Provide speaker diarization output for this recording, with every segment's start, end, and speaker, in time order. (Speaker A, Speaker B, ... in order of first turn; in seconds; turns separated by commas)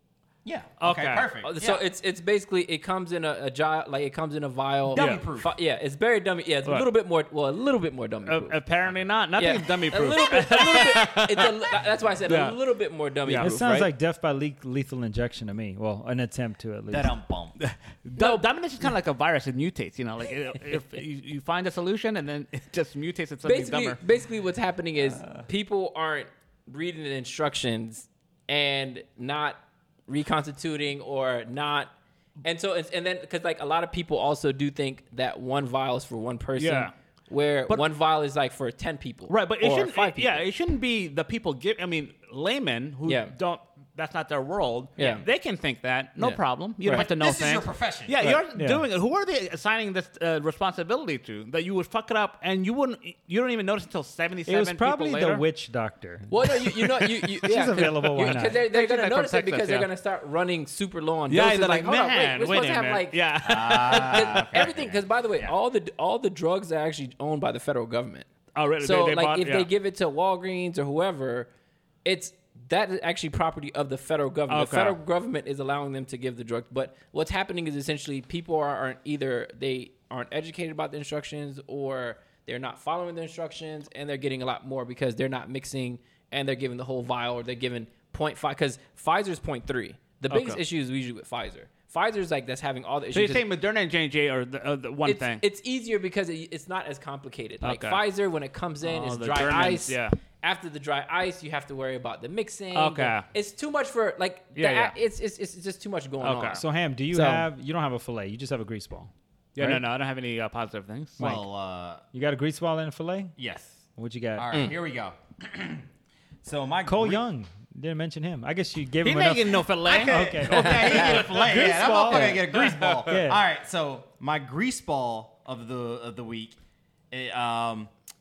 Speaker A: 0.4-1.8, Speaker B: 0.8-1.3, Speaker C: 1.4-8.6, Speaker A: 4.9-5.5, Speaker B: 4.9-5.2, Speaker B: 8.3-11.7, Speaker C: 9.4-13.9, Speaker B: 12.2-12.6, Speaker B: 13.2-13.5, Speaker D: 13.4-17.1, Speaker A: 16.9-17.6, Speaker B: 17.6-24.0, Speaker C: 18.2-18.4, Speaker C: 23.4-31.9, Speaker C: 32.4-40.4, Speaker B: 36.6-36.9, Speaker B: 39.3-55.4, Speaker C: 43.1-43.3, Speaker C: 45.0-45.2, Speaker C: 46.2-47.1, Speaker A: 46.9-48.4, Speaker D: 48.5-48.8, Speaker D: 54.5-56.4, Speaker C: 56.3-68.3, Speaker D: 57.4-58.6, Speaker B: 58.3-59.9, Speaker B: 61.3-64.5, Speaker A: 63.4-65.5, Speaker B: 68.5-69.7, Speaker C: 68.8-71.5, Speaker C: 72.0-93.4, Speaker B: 74.5-75.0, Speaker B: 90.3-90.6, Speaker B: 93.1-95.4, Speaker C: 95.0-107.5, Speaker B: 97.6-98.0, Speaker B: 98.8-100.2, Speaker B: 102.7-103.3, Speaker B: 104.6-104.9, Speaker B: 106.2-106.6, Speaker D: 106.5-109.8, Speaker B: 109.6-111.2, Speaker D: 111.2-111.4, Speaker A: 111.2-112.0, Speaker D: 112.1-113.3, Speaker A: 113.4-113.8, Speaker D: 114.0-114.5, Speaker A: 114.3-115.8, Speaker A: 116.4-117.2, Speaker D: 116.8-123.4, Speaker B: 119.0-121.4, Speaker A: 119.8-126.6, Speaker C: 120.5-121.3, Speaker C: 122.1-122.5, Speaker B: 122.5-123.0, Speaker A: 127.1-127.9